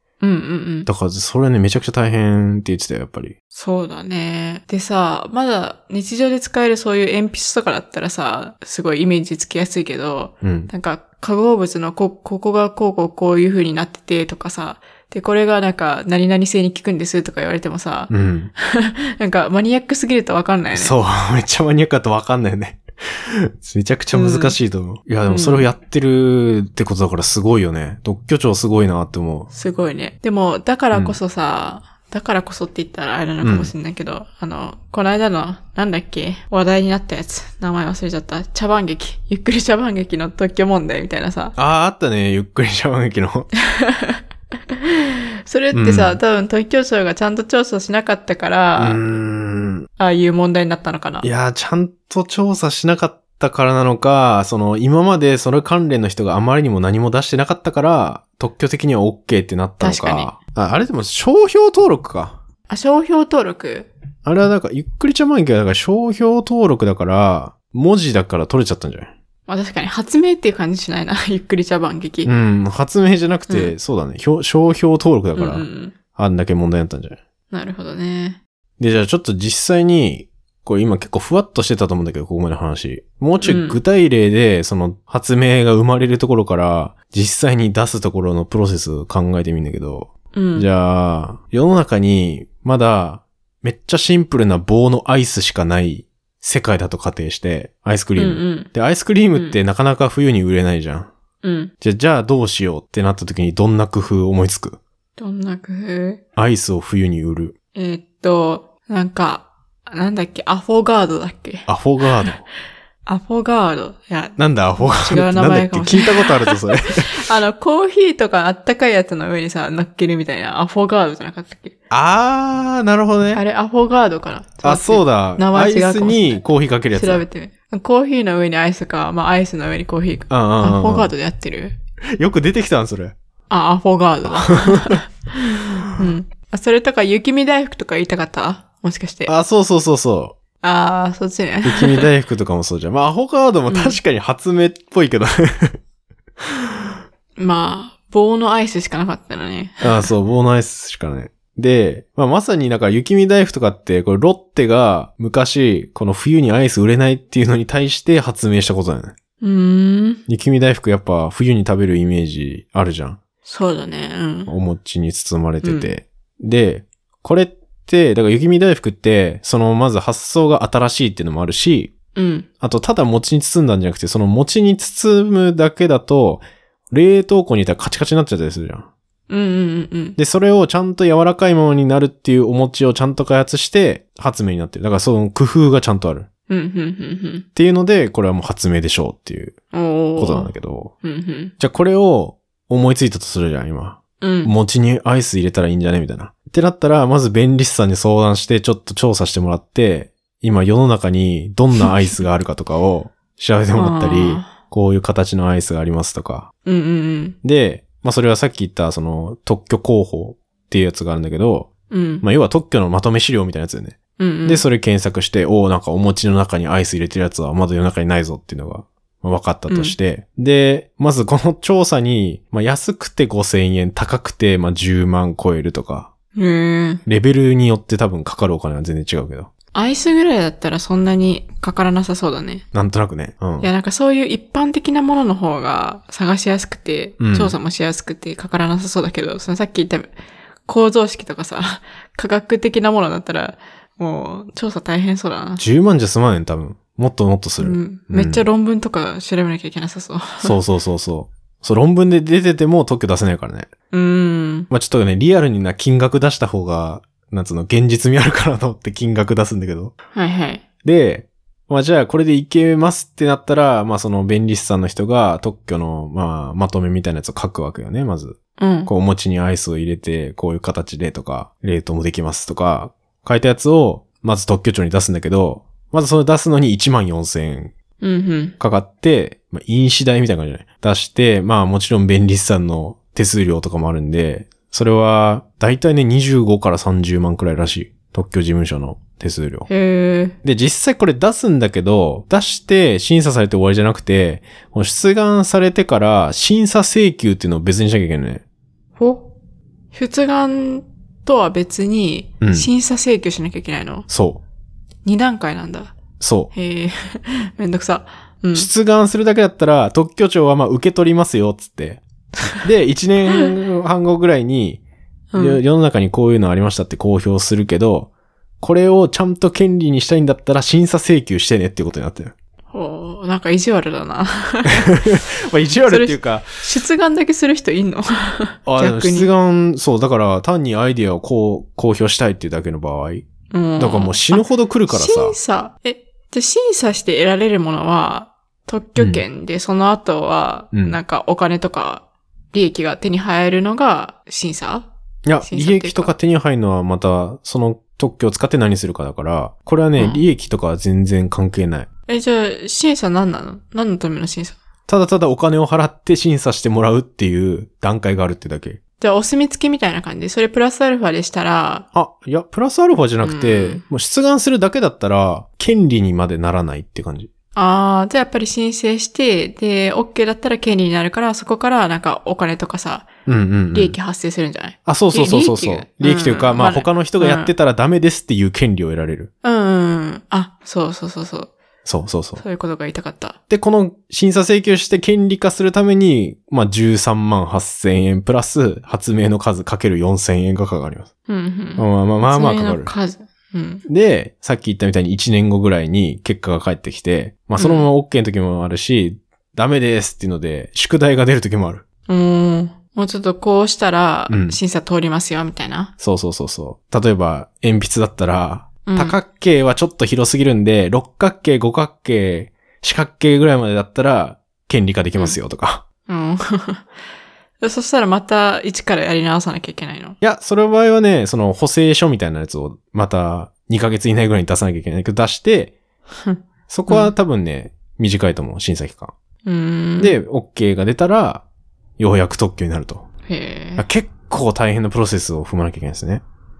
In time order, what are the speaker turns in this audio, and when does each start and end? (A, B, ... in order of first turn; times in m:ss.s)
0:00.2-0:00.9 A
0:00.8-0:03.3 B
0:03.5-0:20.9 A
0:10.4-0:10.7 B
0:18.1-0:18.5 B
0:20.7-0:29.5 B
0:24.1-0:24.6 A
0:25.3-0:25.7 A
0:29.5-0:41.6 A
0:30.9-0:31.2 B
0:33.4-0:33.7 B
0:41.6-0:43.5 B
0:43.6-0:49.0 A
0:45.7-0:46.2 B
0:48.8-0:49.9 B
0:50.0-0:51.3 A
0:51.2-1:02.4 B
0:59.8-1:00.3 A
1:02.7-1:03.9 A
1:04.2-1:09.1 B
1:09.5-1:12.3 A
1:12.2-1:17.2 B
1:15.4-1:15.9 A
1:17.5-1:18.4 A
1:18.8-1:41.1 B
1:23.4-1:23.8 A
1:30.3-1:30.7 A
1:38.2-1:38.7 A
1:41.4-1:41.7 A
1:41.8-1:44.8 B
1:45.2-1:46.2 A
1:46.4-1:47.5 B
1:47.7-1:52.3 A
1:51.7-1:52.4 B
1:53.0-2:01.7 A
1:54.4-1:57.3 B
2:01.9-2:03.4 B
2:03.3-2:06.4 A
2:04.6-2:07.2 B
2:06.9-2:11.8 A
2:10.3-2:11.1 B
2:12.2-2:13.1 B
2:13.5-2:19.3 A
2:14.2-2:15.0 B
2:19.3-2:20.4 B
2:20.6-2:22.1 A
2:21.6-2:25.8 B
2:23.7-2:24.0 A
2:26.4-2:26.9 B
2:27.4-2:30.1 A
2:29.8-2:39.1 B
2:39.4-2:40.2 A
2:40.3-2:43.2 B
2:43.4-2:44.5 A
2:44.5-2:51.9 B
2:45.6-2:45.9 A
2:52.1-2:52.5 A
2:52.6-2:58.9 B
2:59.3-3:00.2 A
3:00.2-3:06.3 B
3:06.5-3:07.4 A
3:07.5-3:09.6 B
3:09.7-3:10.5 A
3:10.2-3:10.9 B
3:11.0-3:11.5 A
3:11.6-3:26.5 B
3:14.2-3:14.5 A
3:23.7-3:24.5 A
3:26.6-3:27.4 A
3:27.4-3:31.7 B
3:31.9-3:32.2 A
3:32.2-3:46.1 B
3:34.2-3:34.6 A
3:39.7-3:40.0 A
3:46.3-3:47.0 A
3:47.0-3:49.5 B
3:49.7-3:52.6 A
3:52.7-3:53.7 B
3:53.6-4:00.1 A
3:57.2-3:57.5 B
4:00.7-4:05.6 A
4:05.6-4:08.4 B
4:07.6-4:10.6 A
4:10.4-4:13.7 B
4:13.9-4:14.7 A
4:14.7-4:19.9 B
4:20.1-4:20.6 A
4:20.8-4:37.7 B
4:28.6-4:28.9 A
4:38.0-4:38.5 A
4:38.6-4:49.7 B
4:49.7-4:50.4 A
4:50.4-4:58.4 B
4:59.0-4:59.3 A
4:59.9-5:04.1 A
5:02.4-5:02.7 B
5:04.1-5:04.4 B
5:05.0-5:06.0 A
5:06.2-5:06.5 B
5:06.5-5:08.7 A
5:08.5-5:12.0 B
5:12.6-5:14.8 B
5:15.3-5:15.6 A
5:15.4-5:18.1 B
5:18.6-5:22.3 B
5:22.7-5:25.2 A
5:24.8-5:26.5 B
5:25.8-5:29.3 A
5:28.6-5:33.2 B
5:33.5-5:44.9 A
5:33.8-5:35.4 B
5:39.0-5:39.2 B
5:40.7-5:41.0 B
5:45.2-5:51.9 B
5:45.4-5:46.1 A
5:50.0-5:50.2 A
5:52.1-5:54.6 A
5:54.9-5:58.8 B
5:59.0-6:01.8 A
6:01.9-6:07.3 B
6:03.2-6:03.8 A
6:07.5-6:13.1 A
6:13.2-6:14.0 B
6:13.7-6:17.5 A
6:14.8-6:19.3 B
6:19.4-6:21.5 A
6:21.8-6:22.4 B
6:22.4-6:23.4 A
6:23.5-6:31.1 B
6:31.3-6:33.8 A
6:31.8-6:32.9 B
6:33.9-6:41.8 B
6:37.6-6:37.9 A
6:42.1-6:45.9 A
6:44.3-6:44.6 B
6:46.0-6:55.8 B
6:48.8-6:49.2 A
6:56.1-6:56.8 A
6:57.6-7:00.2 A
7:00.2-7:05.7 B
7:06.2-7:07.1 A
7:06.7-7:09.1 B
7:09.4-7:10.2 A
7:10.0-7:11.4 B
7:12.0-7:13.0 B
7:13.3-7:13.8 A
7:13.8-7:16.2 B